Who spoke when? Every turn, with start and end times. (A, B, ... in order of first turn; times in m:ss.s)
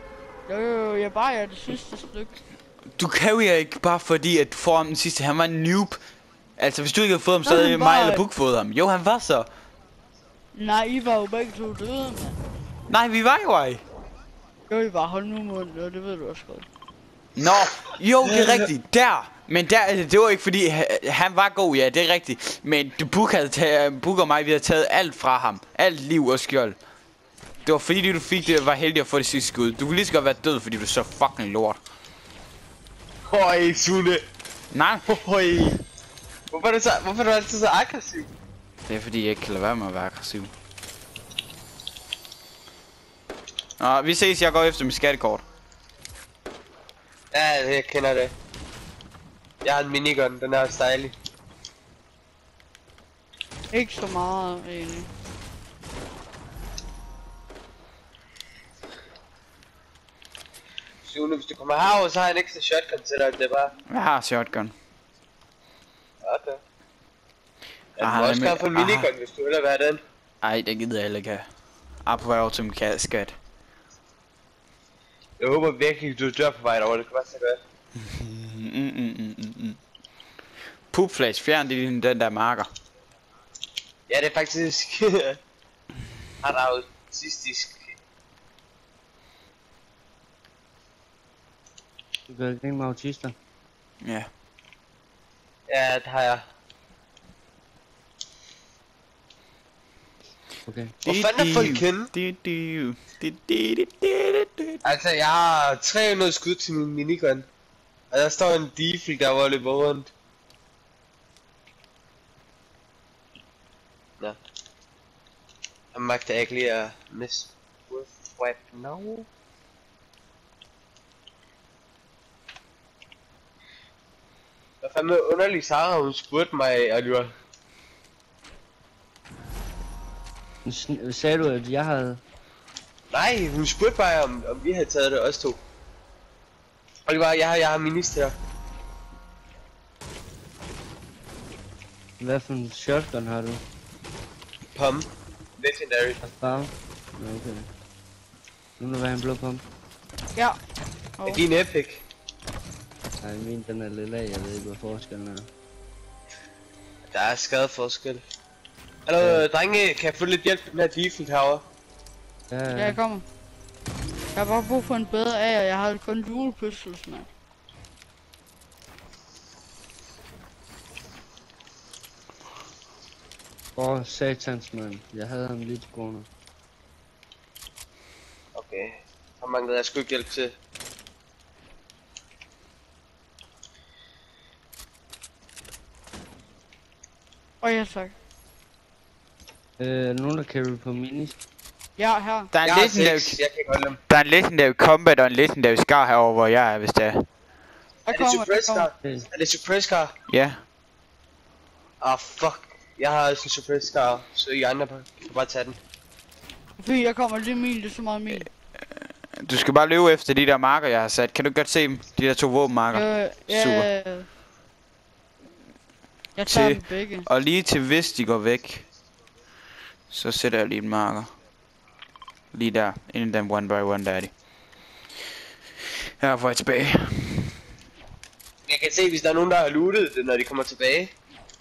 0:00.5-0:02.4 A
0:03.0-0:06.0 B
0:06.6-0:09.5 B
0:07.4-0:08.2 A
0:10.5-0:12.4 A
0:12.9-0:13.8 B
0:14.7-0:16.7 A
0:17.4-0:26.8 B
0:27.6-0:31.8 B
0:33.3-0:34.2 C
0:34.7-0:35.1 B
0:35.1-0:35.8 C
0:36.5-0:38.3 C
0:38.9-0:40.5 B
0:43.8-0:45.4 B
0:47.3-0:48.3 C
0:49.6-0:51.1 C
0:53.7-0:55.1 A
1:01.0-1:03.7 C
1:03.9-1:04.7 B
1:06.2-1:06.6 C
1:08.0-1:10.0 C
1:08.0-1:09.1 B
1:10.4-1:11.5 B
1:12.0-1:13.3 B
1:15.4-1:17.6 C
1:18.0-1:19.8 B
1:20.9-1:22.7 B
1:24.1-1:25.4 C
1:26.4-1:28.0 C
1:32.3-1:33.4 D
1:34.0-1:34.3 B
1:35.7-1:36.4 C
1:40.7-1:40.9 D
1:41.0-1:44.8 B
1:41.1-1:42.1 C
1:44.8-1:47.5 C
1:48.1-1:50.1 C
1:55.9-1:59.3 C
2:04.8-2:07.3 C
2:10.6-2:12.2 D
2:13.1-2:15.6 C
2:17.1-2:18.4 C
2:22.2-2:23.6 D
2:24.7-2:25.1 C
2:25.6-2:26.2 C
2:26.2-2:27.7 D
2:28.8-2:29.6 D
2:31.2-2:31.4 A
2:31.3-2:32.0 C
2:33.2-2:35.5 D
2:37.1-2:38.2 C
2:39.1-2:41.6 C
2:39.2-2:39.4 D
2:42.5-2:43.0 D
2:42.7-2:43.2 A
2:44.4-2:47.3 A
2:53.8-2:56.3 D
2:58.6-3:00.6 C
3:07.6-3:08.1 A
3:09.8-3:11.3 D
3:12.0-3:12.5 A
3:12.5-3:13.4 B
3:12.6-3:14.0 C
3:14.1-3:17.3 B
3:18.1-3:18.9 A
3:18.1-3:20.1 C
3:19.0-3:19.3 D
3:20.3-3:20.6 B
3:22.0-3:25.8 C
3:26.8-3:28.5 A
3:29.4-3:33.9 B
3:32.9-3:34.3 A
3:36.4-3:37.3 A
3:36.5-3:38.8 B
3:40.1-3:41.3 B
3:42.5-3:44.3 B
3:46.2-3:47.5 B
3:48.7-3:51.1 C